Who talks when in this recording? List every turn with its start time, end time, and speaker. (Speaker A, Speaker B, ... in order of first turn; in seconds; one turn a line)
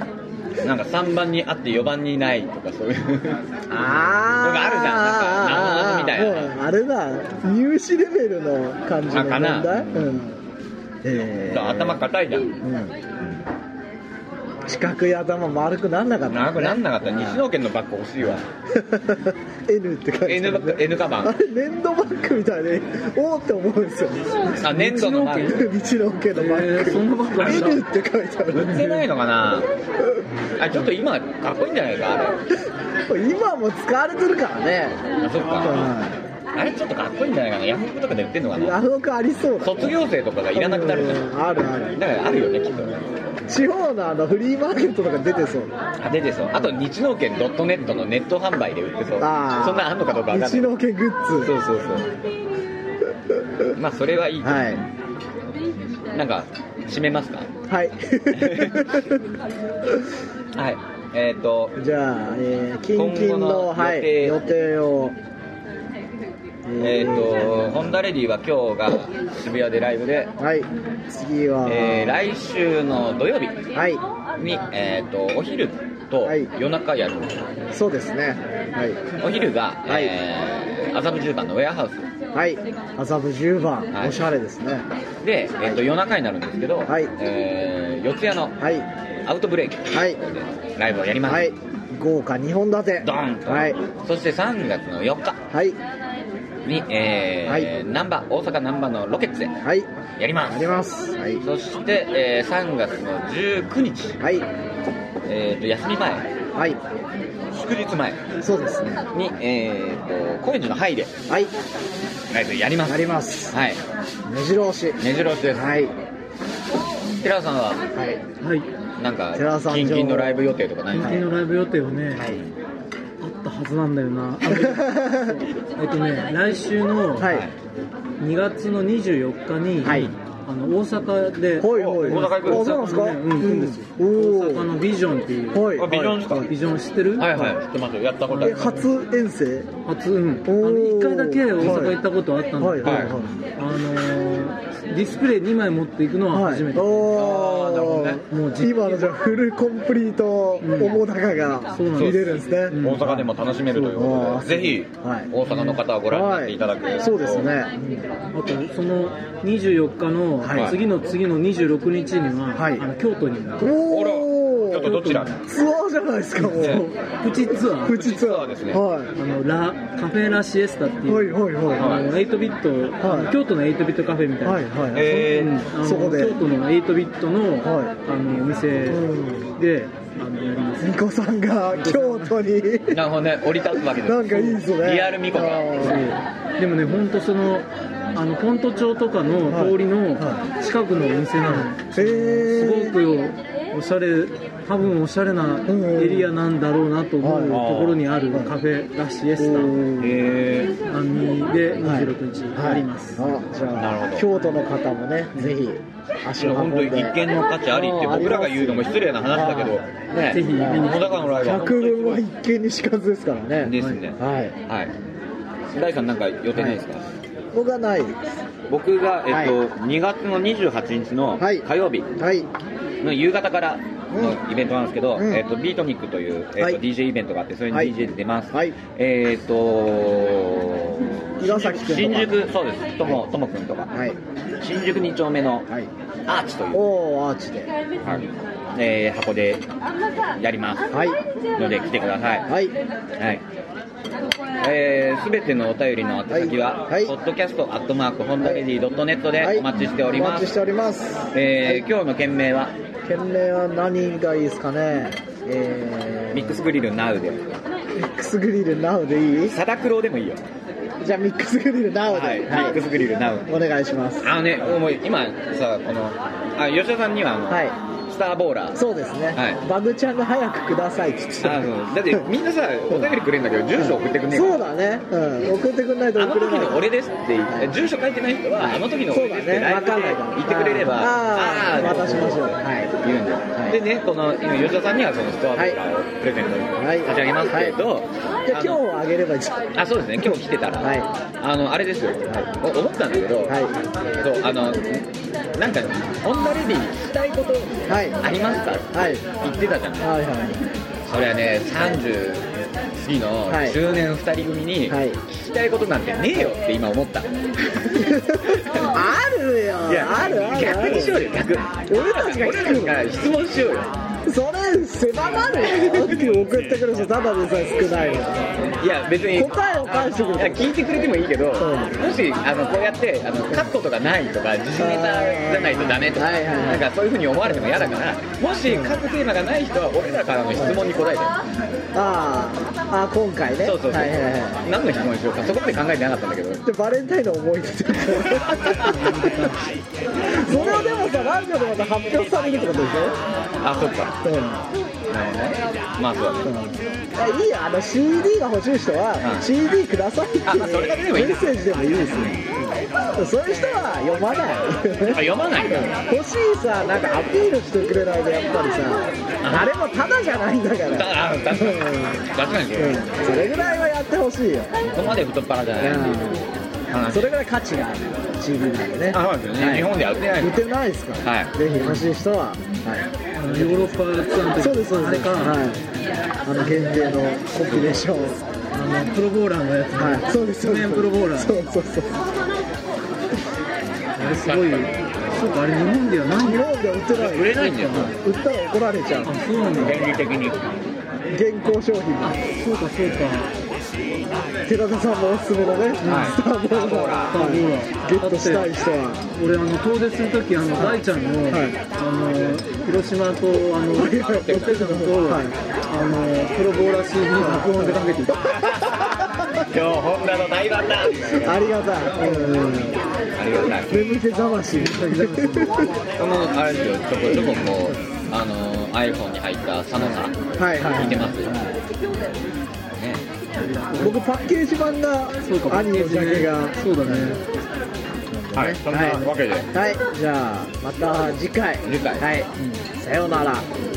Speaker A: 0.6-3.4
Speaker B: 3.7-10.4
Speaker A: 4.4-6.5
Speaker A: 9.1-10.2
Speaker B: 11.0-12.0
Speaker A: 11.5-12.6
Speaker B: 12.6-12.9
Speaker B: 14.7-17.4
Speaker A: 16.3-18.4
Speaker B: 18.7-24.5
Speaker A: 20.2-21.3
Speaker A: 24.5-25.6
Speaker C: 24.6-25.6
Speaker B: 25.4-29.0
Speaker C: 26.3-27.8
Speaker A: 28.5-29.7
Speaker A: 30.6-32.4
Speaker B: 33.1-35.0
Speaker A: 35.1-35.9
Speaker B: 35.6-36.2
Speaker A: 36.5-38.8
Speaker B: 38.5-39.9
Speaker A: 39.6-41.2
Speaker B: 40.5-42.0
Speaker A: 42.0-43.1
Speaker B: 43.5-45.7
Speaker A: 46.0-50.7
Speaker B: 49.2-51.5
Speaker A: 51.4-52.1
Speaker A: 53.7-54.8
Speaker B: 54.4-54.8
Speaker A: 56.1-57.5
Speaker B: 57.7-59.2
Speaker A: 58.3-58.8
Speaker A: 60.5-61.8
Speaker B: 61.8-65.1
Speaker A: 62.9-64.4
Speaker B: 66.7-67.3
Speaker A: 66.8-70.3
Speaker B: 70.4-72.2
Speaker A: 71.6-73.6
Speaker B: 73.7-74.0
Speaker A: 74.4-77.4
Speaker B: 76.2-76.5
Speaker B: 77.7-79.0
Speaker A: 79.2-82.0
Speaker B: 82.3-84.8
Speaker A: 83.9-84.2
Speaker A: 85.2-88.6
Speaker B: 86.9-87.1
Speaker B: 88.6-88.9
Speaker A: 89.2-91.5
Speaker B: 89.9-90.2
Speaker B: 91.3-93.8
Speaker A: 93.0-95.4
Speaker B: 95.5-95.8
Speaker A: 96.6-99.5
Speaker A: 100.2-100.8
Speaker B: 100.5-101.4
Speaker A: 101.4-104.2
Speaker B: 104.2-104.5
Speaker A: 105.3-106.3
Speaker B: 106.5-106.8
Speaker A: 107.5-108.2
Speaker B: 108.4-109.0
Speaker A: 109.1-111.1
Speaker A: 112.3-113.8
Speaker B: 112.9-113.5
Speaker B: 114.3-115.0
Speaker A: 115.0-115.8
Speaker B: 115.5-115.9
Speaker A: 117.2-117.8
Speaker C: 118.4-118.7
Speaker A: 119.0-121.2
Speaker B: 119.3-121.2
Speaker C: 120.9-122.2
Speaker C: 123.2-127.3
Speaker B: 124.5-125.4
Speaker B: 127.2-127.5
Speaker A: 127.2-127.5
Speaker C: 128.2-137.5
Speaker B: 129.8-130.1
Speaker B: 131.6-134.7
Speaker A: 131.7-132.8
Speaker B: 135.5-136.5
Speaker A: 135.7-136.5
Speaker A: 137.2-138.8
Speaker C: 138.3-138.9
Speaker B: 138.4-139.7
Speaker C: 139.8-147.3
Speaker B: 140.4-142.0
Speaker B: 142.6-143.3
Speaker A: 142.8-143.2
Speaker B: 146.3-153.2
Speaker A: 147.1-148.2
Speaker C: 148.2-149.1
Speaker C: 150.6-151.0
Speaker C: 151.7-154.0
Speaker A: 151.9-157.5
Speaker B: 153.9-155.3
Speaker B: 156.1-158.0
Speaker C: 158.3-163.7
Speaker B: 160.4-160.7
Speaker A: 160.5-160.8
Speaker B: 162.6-162.8
Speaker B: 163.6-167.0
Speaker A: 163.9-165.4
Speaker C: 164.8-165.4
Speaker A: 166.5-166.9
Speaker C: 166.7-168.1
Speaker B: 167.7-169.1
Speaker A: 167.9-168.8
Speaker C: 169.1-179.0
Speaker B: 171.1-172.0
Speaker A: 171.7-172.1
Speaker B: 173.0-173.3
Speaker B: 174.4-175.2
Speaker A: 174.9-175.6
Speaker B: 175.8-176.4
Speaker B: 177.6-177.9
Speaker B: 178.8-179.5
Speaker C: 179.5-180.9
Speaker B: 180.8-183.1
Speaker C: 181.7-182.4
Speaker A: 182.9-186.0
Speaker B: 183.8-186.0
Speaker C: 185.8-199.8
Speaker B: 189.5-190.4
Speaker B: 191.4-192.9
Speaker B: 195.7-196.3
Speaker B: 197.2-197.7
Speaker A: 197.5-198.0
Speaker B: 199.4-200.2
Speaker A: 200.0-200.8
Speaker C: 200.9-203.3
Speaker B: 201.8-207.2
Speaker A: 203.7-204.3
Speaker A: 206.4-212.2
Speaker B: 207.7-209.8
Speaker C: 210.3-211.7
Speaker B: 210.5-210.8
Speaker B: 211.4-214.5
Speaker A: 213.6-214.9
Speaker A: 215.7-217.0
Speaker B: 217.5-218.2
Speaker A: 218.7-222.1
Speaker B: 219.3-219.6
Speaker B: 221.4-221.7
Speaker B: 222.2-222.5
Speaker A: 223.0-233.9
Speaker B: 228.5-228.8
Speaker B: 231.4-232.4
Speaker B: 233.9-234.2
Speaker A: 234.6-235.7
Speaker A: 236.3-236.9
Speaker B: 236.7-237.7
Speaker A: 238.0-239.7
Speaker A: 240.3-240.9
Speaker B: 240.9-241.2
Speaker A: 241.5-242.5
Speaker B: 242.5-242.7
Speaker A: 243.2-243.4
Speaker A: 244.6-250.5
Speaker B: 246.3-247.1
Speaker B: 249.4-251.8
Speaker A: 251.3-252.7
Speaker B: 253.1-256.6
Speaker A: 256.3-257.4
Speaker B: 257.9-259.6
Speaker A: 259.5-260.4
Speaker B: 261.0-262.8
Speaker A: 262.1-263.5
Speaker B: 263.5-264.3
Speaker A: 264.2-268.8
Speaker B: 268.7-272.2
Speaker A: 269.3-269.6
Speaker A: 271.4-274.6
Speaker B: 272.9-273.2
Speaker B: 273.8-276.8
Speaker A: 276.1-288.8
Speaker B: 278.6-282.9
Speaker B: 283.5-283.8
Speaker B: 286.8-287.8
Speaker B: 288.4-289.7
Speaker A: 289.7-293.6
Speaker B: 290.2-291.1
Speaker B: 293.5-293.7
Speaker A: 294.2-300.1
Speaker B: 297.9-298.2
Speaker B: 298.9-299.3
Speaker B: 300.0-300.6
Speaker A: 301.1-309.0
Speaker B: 303.5-303.8
Speaker B: 304.9-305.2
Speaker B: 307.9-311.2
Speaker A: 309.9-313.9
Speaker B: 311.9-313.0
Speaker B: 314.2-318.6
Speaker A: 315.6-316.2
Speaker A: 318.8-331.3
Speaker B: 319.3-320.9
Speaker B: 321.6-321.9
Speaker B: 324.8-326.9
Speaker B: 328.7-328.9
Speaker B: 331.9-334.6
Speaker A: 333.6-336.6
Speaker B: 336.6-339.5
Speaker C: 338.9-339.6
Speaker B: 340.3-343.1
Speaker A: 340.4-340.9
Speaker A: 343.6-344.2
Speaker B: 344.2-344.6
Speaker A: 345.1-346.5
Speaker B: 346.4-362.2
Speaker A: 349.2-349.4
Speaker A: 350.4-351.5
Speaker A: 355.0-356.0
Speaker A: 359.4-359.7
Speaker A: 360.9-363.2
Speaker B: 362.8-364.7
Speaker A: 364.8-366.3
Speaker B: 365.8-366.5
Speaker A: 366.9-367.3
Speaker B: 367.1-373.9
Speaker A: 369.1-370.6
Speaker A: 371.2-371.5
Speaker C: 371.6-372.1
Speaker C: 373.4-375.6
Speaker B: 374.6-375.8
Speaker B: 376.4-378.4
Speaker C: 376.6-377.3
Speaker C: 378.7-381.5
Speaker B: 379.9-382.2
Speaker C: 384.2-386.6
Speaker A: 384.3-384.9
Speaker B: 386.4-389.3
Speaker A: 387.1-388.1
Speaker C: 387.7-388.1
Speaker C: 389.2-390.1
Speaker A: 389.7-390.7
Speaker B: 391.3-392.4
Speaker C: 392.2-393.5
Speaker B: 394.6-399.2
Speaker A: 396.0-397.5
Speaker C: 396.0-396.3
Speaker C: 397.3-398.7
Speaker C: 399.3-408.5
Speaker B: 401.5-401.8
Speaker B: 403.9-405.6
Speaker A: 404.2-404.8
Speaker B: 407.4-408.0
Speaker A: 408.3-411.7
Speaker B: 411.4-413.0
Speaker C: 412.2-412.6
Speaker A: 413.4-414.1
Speaker B: 413.9-415.9
Speaker C: 414.7-415.9
Speaker A: 416.2-421.6
Speaker B: 417.5-417.8
Speaker B: 420.6-421.8
Speaker A: 422.9-423.2
Speaker C: 423.6-424.2
Speaker B: 424.0-427.4
Speaker C: 425.4-427.4
Speaker B: 428.3-433.7
Speaker A: 428.5-429.7
Speaker A: 431.8-432.3